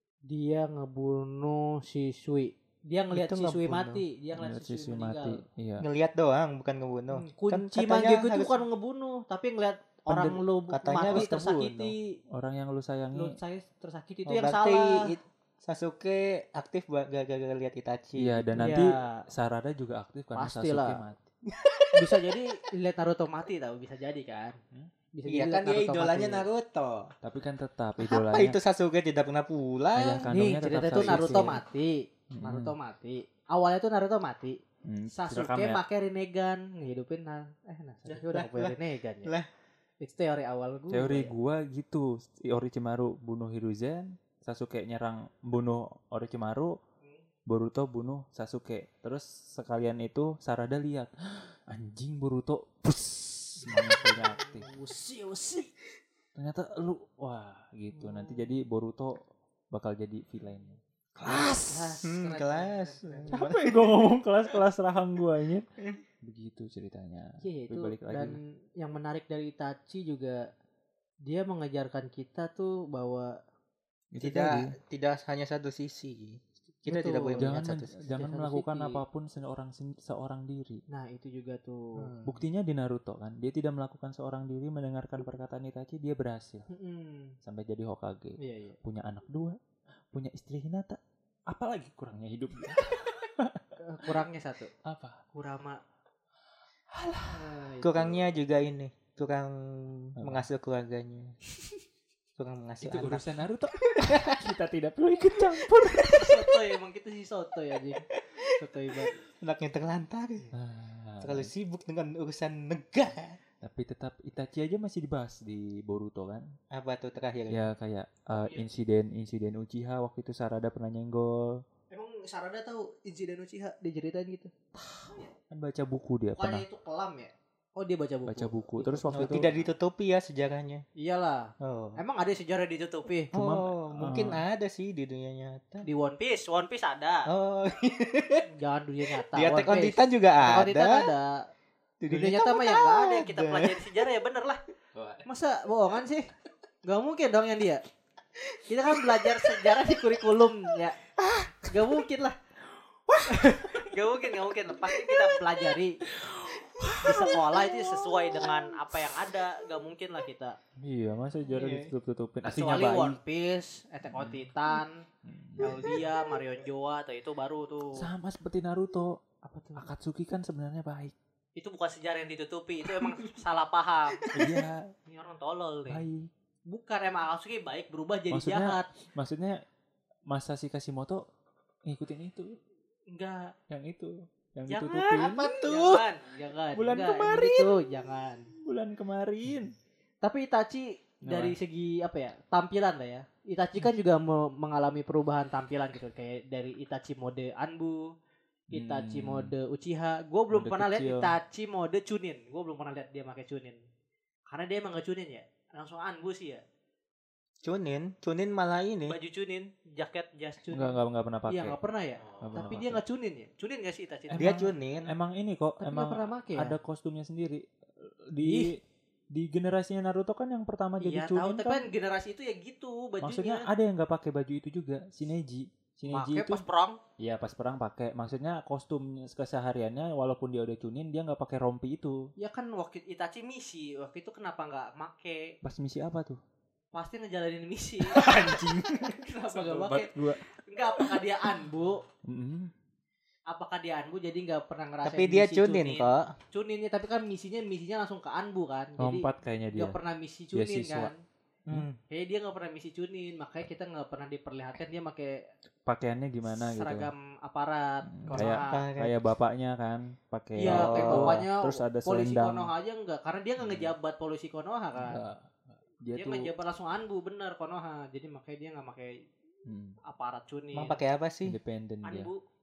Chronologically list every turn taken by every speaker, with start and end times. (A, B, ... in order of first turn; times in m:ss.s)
0:00.3-0:05.4 A
0:03.1-0:04.0 B
0:04.4-0:05.8 C
0:05.8-0:08.6 B
0:07.1-0:12.0 A
0:10.1-0:10.4 C
0:10.7-0:11.9 B
0:10.9-0:11.4 C
0:12.3-0:13.4 C
0:13.1-0:15.1 A
0:14.3-0:18.8 B
0:18.2-0:21.2 C
0:18.6-0:19.2 A
0:20.4-0:21.0 A
0:21.5-0:22.2 B
0:21.9-0:24.6 A
0:25.1-0:26.5 A
0:25.2-0:27.1 B
0:27.2-0:28.6 C
0:28.0-0:30.3 B
0:29.9-0:31.6 C
0:30.3-0:34.6 A
0:30.9-0:31.6 B
0:32.3-0:32.7 C
0:34.8-0:35.8 C
0:35.1-0:39.3 A
0:38.1-0:39.5 B
0:40.0-0:41.3 A
0:40.9-0:46.7 C
0:47.5-0:54.7 C
0:53.6-0:55.7 A
0:56.4-1:02.0 C
0:57.9-0:58.4 A
1:01.3-1:03.4 A
1:02.0-1:04.1 B
1:03.3-1:05.6 C
1:06.2-1:08.4 C
1:07.4-1:10.4 A
1:11.2-1:13.4 A
1:14.1-1:14.7 C
1:14.2-1:17.9 B
1:16.9-1:19.0 A
1:17.4-1:20.8 C
1:20.9-1:22.1 A
1:22.0-1:22.4 B
1:22.2-1:26.7 C
1:26.7-1:27.4 A
1:27.4-1:29.6 C
1:28.4-1:28.8 A
1:30.1-1:34.2 C
1:33.8-1:34.7 A
1:34.8-1:35.2 C
1:35.3-1:35.8 A
1:36.9-1:37.4 C
1:37.3-1:38.2 A
1:37.8-1:41.3 B
1:40.2-1:40.5 C
1:42.4-1:43.2 B
1:42.8-1:46.6 C
1:43.8-1:44.4 B
1:46.1-1:49.1 A
1:48.1-1:48.4 B
1:49.3-1:50.4 B
1:50.5-1:51.5 C
1:51.2-1:53.4 B
1:53.6-1:56.5 C
1:56.7-1:57.7 B
1:57.5-2:01.6 C
1:58.4-1:58.6 A
2:01.9-2:04.5 A
2:04.8-2:06.6 C
2:06.4-2:09.7 A
2:08.2-2:09.5 C
2:09.1-2:10.8 B
2:11.0-2:13.3 A
2:11.6-2:12.0 B
2:13.3-2:14.4 C
2:13.3-2:15.9 B
2:15.8-2:17.3 A
2:17.3-2:18.4 B
2:18.6-2:21.4 A
2:19.3-2:21.0 B
2:22.0-2:23.8 B
2:22.1-2:24.6 A
2:25.2-2:26.3 A
2:26.8-2:27.8 A
2:28.6-2:29.5 B
2:28.7-2:31.0 A
2:31.6-2:32.4 A
2:33.1-2:34.0 C
2:33.3-2:36.0 A
2:36.0-2:38.2 C
2:37.0-2:40.6 A
2:40.8-2:43.2 C
2:41.5-2:41.9 B
2:42.4-2:45.0 A
2:44.1-2:44.5 C
2:45.2-2:46.0 C
2:45.6-2:48.1 A
2:48.0-2:49.2 C
2:49.4-2:49.9 A
2:49.8-2:51.1 C
2:51.6-2:54.3 A
2:54.2-2:54.6 B
2:54.3-2:54.9 C
2:55.1-2:56.0 A
2:55.9-2:56.3 C
2:56.7-2:58.9 A
2:58.3-2:59.6 C
3:00.3-3:01.2 C
3:01.9-3:02.6 C
3:03.1-3:03.5 A
3:03.7-3:05.5 C
3:04.7-3:08.5 A
3:05.2-3:06.0 B
3:06.7-3:07.8 C
3:08.6-3:09.7 C
3:10.2-3:18.0 A
3:11.2-3:11.6 C
3:18.7-3:19.5 C
3:18.7-3:23.8 A
3:20.5-3:21.3 C
3:24.5-3:26.6 A
3:27.6-3:29.2 B
3:29.1-3:34.6 A
3:30.7-3:31.8 C
3:32.4-3:33.0 C
3:34.3-3:41.8 C
3:34.4-3:35.1 B
3:35.8-3:36.8 A
3:38.4-3:38.7 A
3:41.0-3:43.7 A
3:43.2-3:46.6 C
3:46.1-3:47.0 A
3:47.2-3:52.2 C
3:52.4-3:55.5 A
3:55.6-3:56.4 C
3:56.9-4:02.0 A
3:58.0-4:00.4 C
4:02.2-4:02.7 C
4:03.5-4:11.2 A
4:05.0-4:06.3 B
4:09.0-4:10.0 C
4:10.5-4:11.1 C
4:11.7-4:12.0 B
4:12.1-4:15.4 A
4:15.9-4:17.1 C
4:16.5-4:18.9 A
4:18.1-4:22.7 C
4:18.3-4:19.1 B
4:20.6-4:25.2 A
4:20.6-4:21.4 B
4:23.6-4:23.9 C
4:25.0-4:26.5 C
4:26.1-4:29.2 A
4:29.7-4:30.0 C
4:30.0-4:31.0 A
4:30.7-4:31.6 B
4:31.4-4:32.3 C
4:32.0-4:32.4 A